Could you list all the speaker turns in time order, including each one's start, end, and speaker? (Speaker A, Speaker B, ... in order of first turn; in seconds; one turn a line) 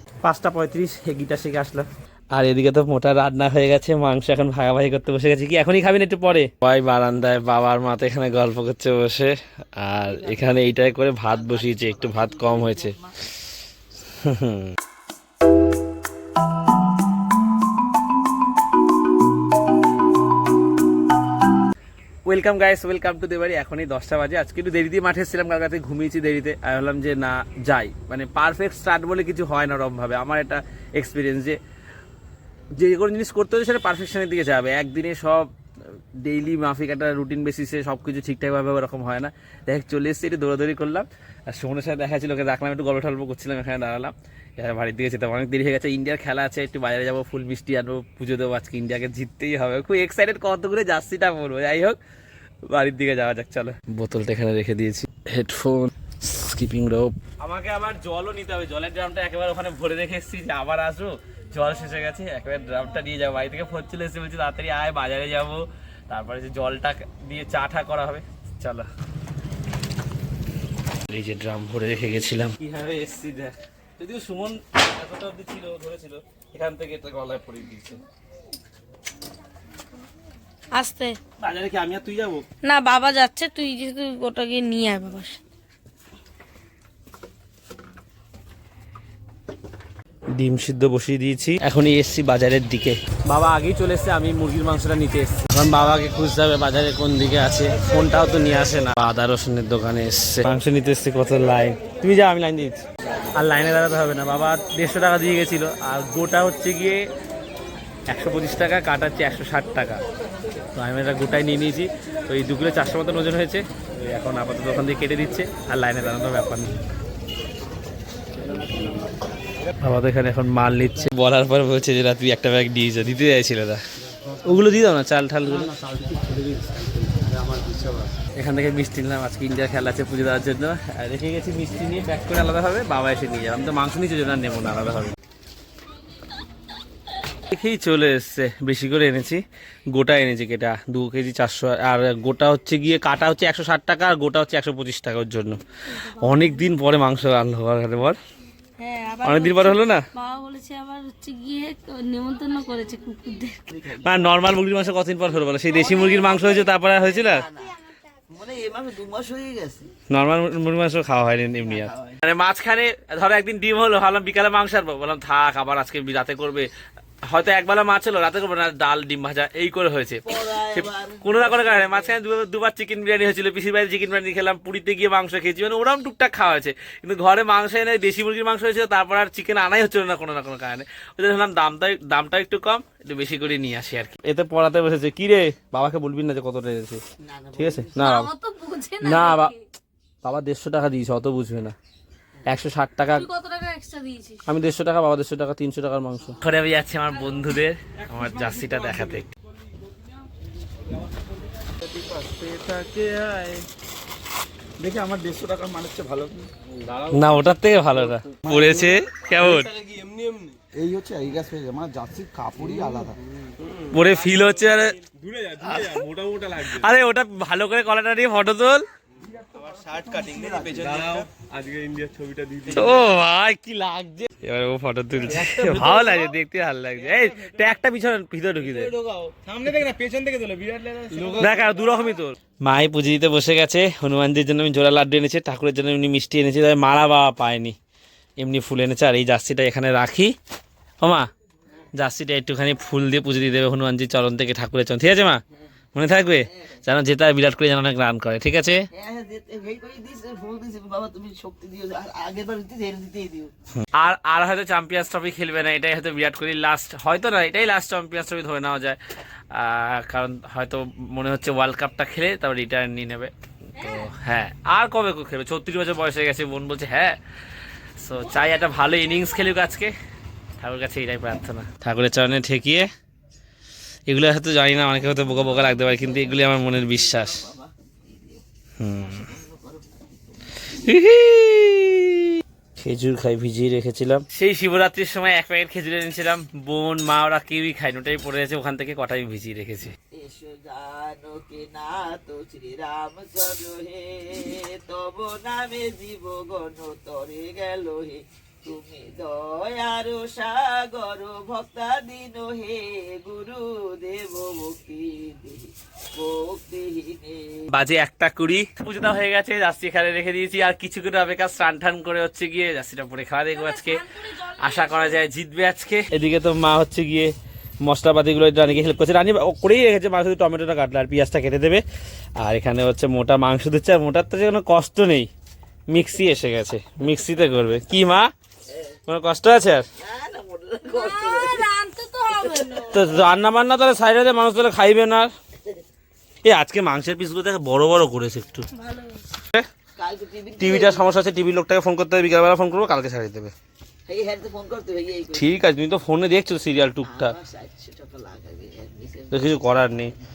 Speaker A: 0.2-12.9
Speaker B: 10.1-13.2
Speaker A: 14.2-14.8
Speaker A: 22.2-31.6
Speaker A: 32.7-52.0
Speaker A: 52.7-68.9
Speaker A: 71.0-78.0
Speaker C: 80.7-81.2
Speaker A: 81.4-82.5
Speaker C: 82.6-85.4
Speaker A: 90.3-102.8
Speaker A: 103.4-107.1
Speaker A: 108.1-110.0
Speaker A: 110.7-116.7
Speaker A: 119.8-123.8
Speaker A: 124.4-135.2
Speaker D: 127.5-128.0
Speaker A: 137.5-145.6
Speaker C: 145.9-146.7
Speaker A: 146.2-148.2
Speaker C: 148.8-153.6
Speaker A: 149.2-150.0
Speaker B: 153.7-154.5
Speaker A: 154.0-157.5
Speaker B: 155.7-157.8
Speaker B: 158.3-159.9
Speaker A: 160.1-166.7
Speaker B: 161.6-162.2
Speaker A: 167.3-187.0
Speaker B: 170.3-172.1
Speaker B: 187.2-188.1
Speaker A: 187.6-188.3
Speaker C: 188.0-189.6
Speaker A: 189.0-189.5
Speaker A: 190.2-191.8
Speaker A: 192.5-193.3
Speaker C: 193.1-194.4
Speaker A: 194.5-199.3
Speaker D: 201.8-203.2
Speaker A: 202.2-203.6
Speaker D: 204.8-207.2
Speaker A: 207.1-209.7
Speaker D: 208.3-213.2
Speaker A: 213.9-215.0
Speaker D: 214.0-214.4
Speaker D: 215.0-216.9
Speaker A: 215.6-216.1
Speaker A: 216.6-218.8
Speaker D: 219.4-223.0
Speaker B: 220.1-221.1
Speaker A: 222.7-228.9
Speaker D: 225.3-226.2
Speaker D: 228.7-231.9
Speaker A: 231.3-237.8
Speaker A: 238.4-240.3
Speaker A: 241.0-241.3
Speaker A: 241.9-245.4
Speaker A: 245.9-248.9
Speaker B: 248.9-253.5
Speaker A: 253.8-259.0
Speaker A: 259.5-267.2
Speaker C: 263.8-264.1
Speaker A: 268.0-269.9
Speaker C: 268.3-269.4
Speaker A: 270.6-272.9
Speaker A: 274.1-277.4
Speaker B: 275.8-278.4
Speaker A: 278.8-279.3
Speaker B: 279.0-280.6
Speaker A: 280.7-289.9
Speaker B: 290.1-307.7
Speaker A: 307.7-314.0
Speaker C: 313.5-315.3
Speaker A: 314.6-321.8
Speaker A: 322.4-325.3
Speaker A: 325.9-328.3
Speaker B: 328.7-329.0
Speaker A: 329.1-329.9
Speaker B: 330.0-331.7
Speaker C: 330.9-333.0
Speaker B: 332.3-333.2
Speaker A: 332.9-335.3
Speaker A: 336.4-338.7
Speaker C: 338.7-339.2
Speaker B: 340.0-341.1
Speaker A: 340.6-343.5
Speaker B: 344.1-345.5
Speaker A: 345.3-347.4
Speaker B: 347.0-349.4
Speaker A: 349.3-350.1